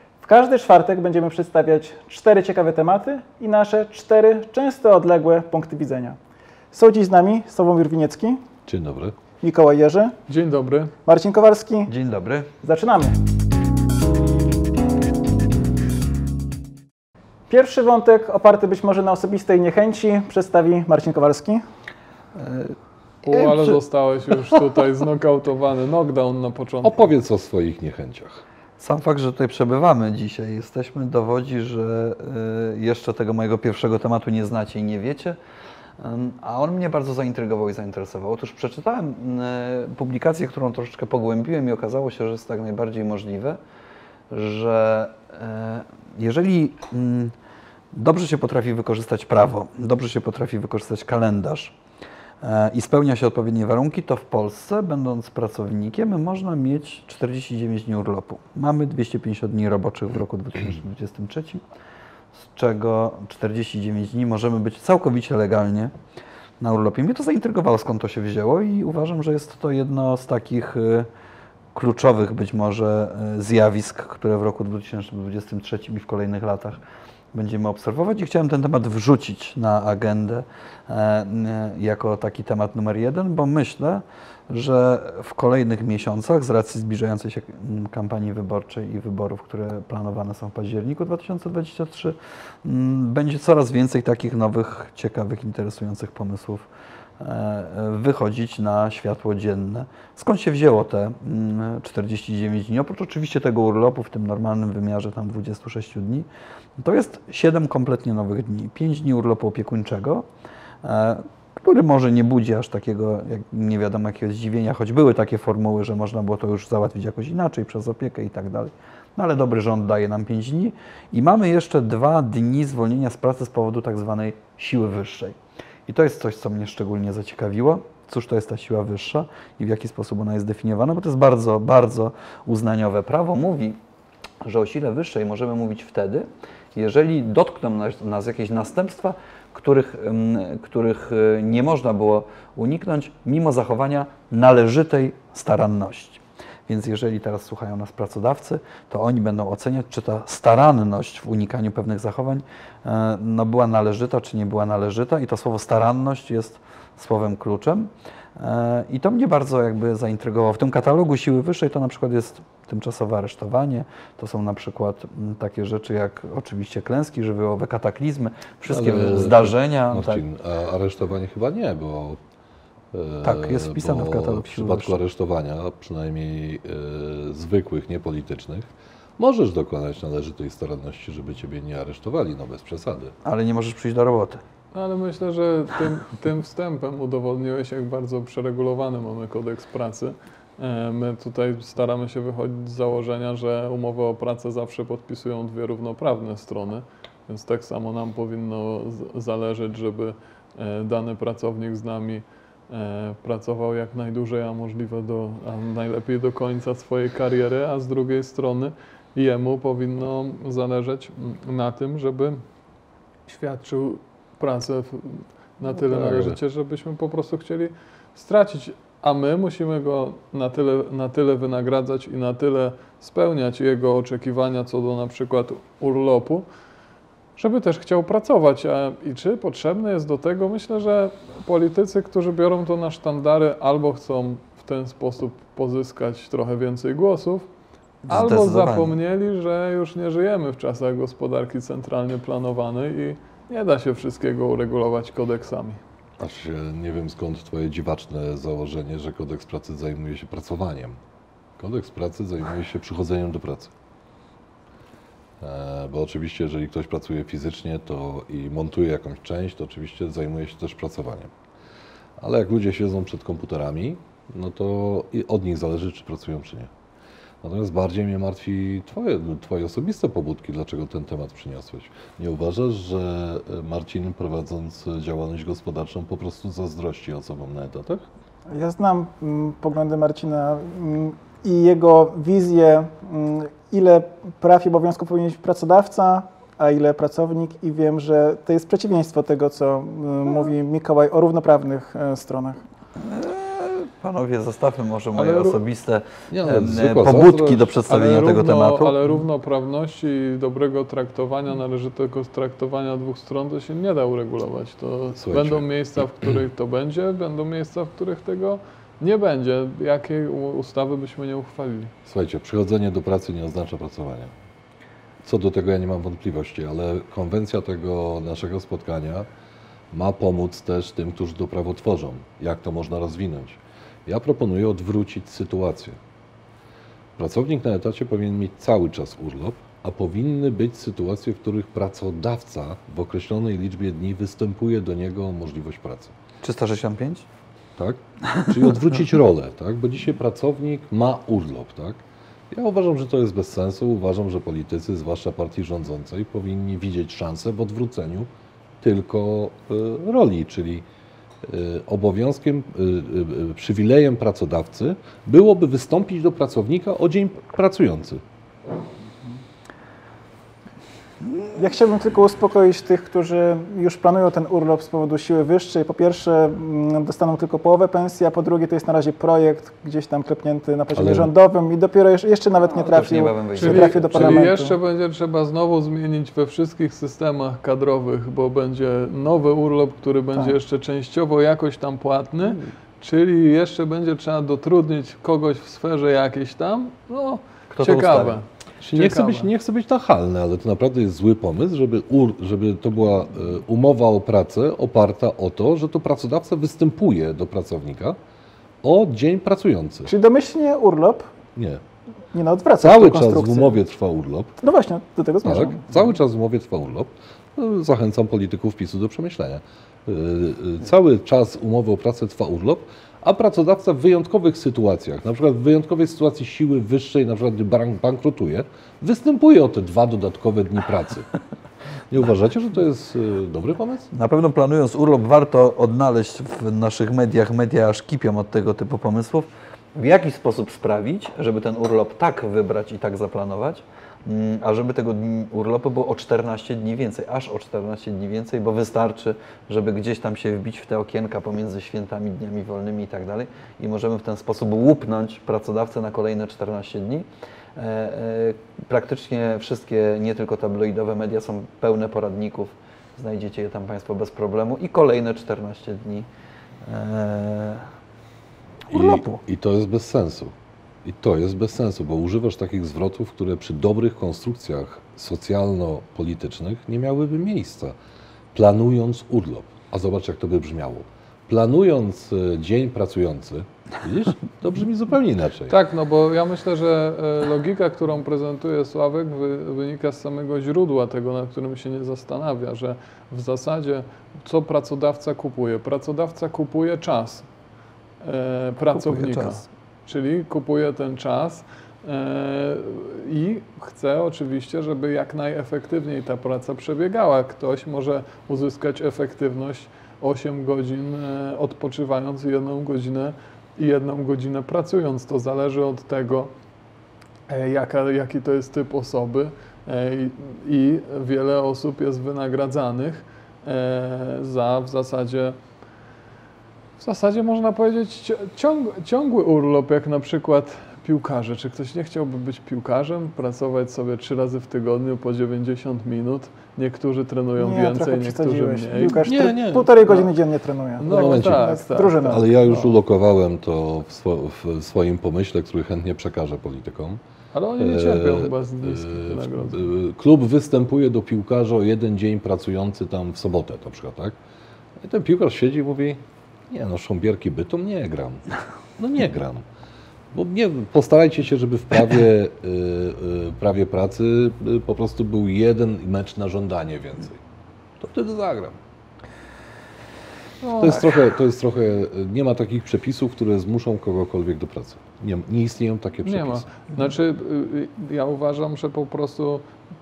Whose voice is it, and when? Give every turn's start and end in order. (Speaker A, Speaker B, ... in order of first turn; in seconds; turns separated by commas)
Speaker A: 0.2-6.2, Speaker A: 6.7-8.4, Speaker B: 8.7-9.1, Speaker A: 9.4-10.2, Speaker C: 10.3-10.9, Speaker A: 11.1-11.9, Speaker D: 11.9-12.5, Speaker A: 12.6-13.2, Speaker A: 17.5-21.6, Speaker D: 22.4-22.8, Speaker C: 23.2-27.0, Speaker D: 23.3-23.8, Speaker B: 26.8-28.4, Speaker D: 28.8-35.4, Speaker D: 36.0-43.6, Speaker D: 44.3-47.4, Speaker D: 47.9-51.8, Speaker D: 52.4-61.6, Speaker D: 62.3-65.9, Speaker D: 66.6-71.1, Speaker D: 71.7-76.8, Speaker D: 77.3-96.7, Speaker D: 97.2-106.3, Speaker D: 106.8-110.3, Speaker D: 110.8-133.8, Speaker D: 134.4-170.2, Speaker B: 168.7-172.2, Speaker B: 172.9-178.7, Speaker D: 173.2-175.0, Speaker B: 179.2-183.1, Speaker D: 183.2-184.4, Speaker C: 184.7-212.4, Speaker C: 213.3-226.5, Speaker B: 215.8-216.4, Speaker C: 227.4-237.5, Speaker D: 238.1-238.9, Speaker C: 238.1-245.8, Speaker B: 246.2-251.0, Speaker B: 251.6-253.7, Speaker B: 255.4-261.3, Speaker B: 262.2-266.7, Speaker B: 267.4-278.0, Speaker A: 278.5-292.6, Speaker D: 293.0-299.0, Speaker C: 295.1-295.6, Speaker B: 296.3-297.8, Speaker C: 297.9-311.9, Speaker B: 305.2-305.7, Speaker B: 312.1-314.3, Speaker B: 315.2-319.3, Speaker B: 319.9-326.0, Speaker B: 327.2-336.1, Speaker D: 336.4-337.3, Speaker B: 337.8-348.3, Speaker B: 348.8-350.9, Speaker B: 351.4-358.2, Speaker A: 361.6-374.8, Speaker B: 370.9-371.3, Speaker D: 372.6-374.5, Speaker C: 373.6-389.5, Speaker D: 387.7-388.4, Speaker B: 388.8-398.2, Speaker B: 398.8-400.1, Speaker A: 400.1-401.3, Speaker B: 401.6-401.8, Speaker A: 402.3-403.8, Speaker B: 402.8-404.6, Speaker A: 404.6-405.9, Speaker B: 405.4-421.3, Speaker B: 422.1-424.1, Speaker D: 424.1-456.3, Speaker D: 456.8-457.9, Speaker D: 458.9-459.4, Speaker B: 458.9-460.5, Speaker B: 461.1-467.9, Speaker B: 468.5-475.8, Speaker C: 475.7-487.5, Speaker C: 488.2-506.5, Speaker D: 488.9-489.6, Speaker C: 507.5-515.6, Speaker C: 517.0-529.2, Speaker A: 527.6-532.5, Speaker B: 529.0-530.3, Speaker C: 531.0-532.9, Speaker B: 531.0-537.2, Speaker C: 537.5-539.9, Speaker B: 537.8-544.4, Speaker B: 545.0-546.2, Speaker B: 546.7-548.4, Speaker B: 549.0-549.6, Speaker B: 550.3-557.4, Speaker B: 558.0-558.8, Speaker C: 560.6-561.0, Speaker B: 560.8-566.7, Speaker C: 566.2-569.7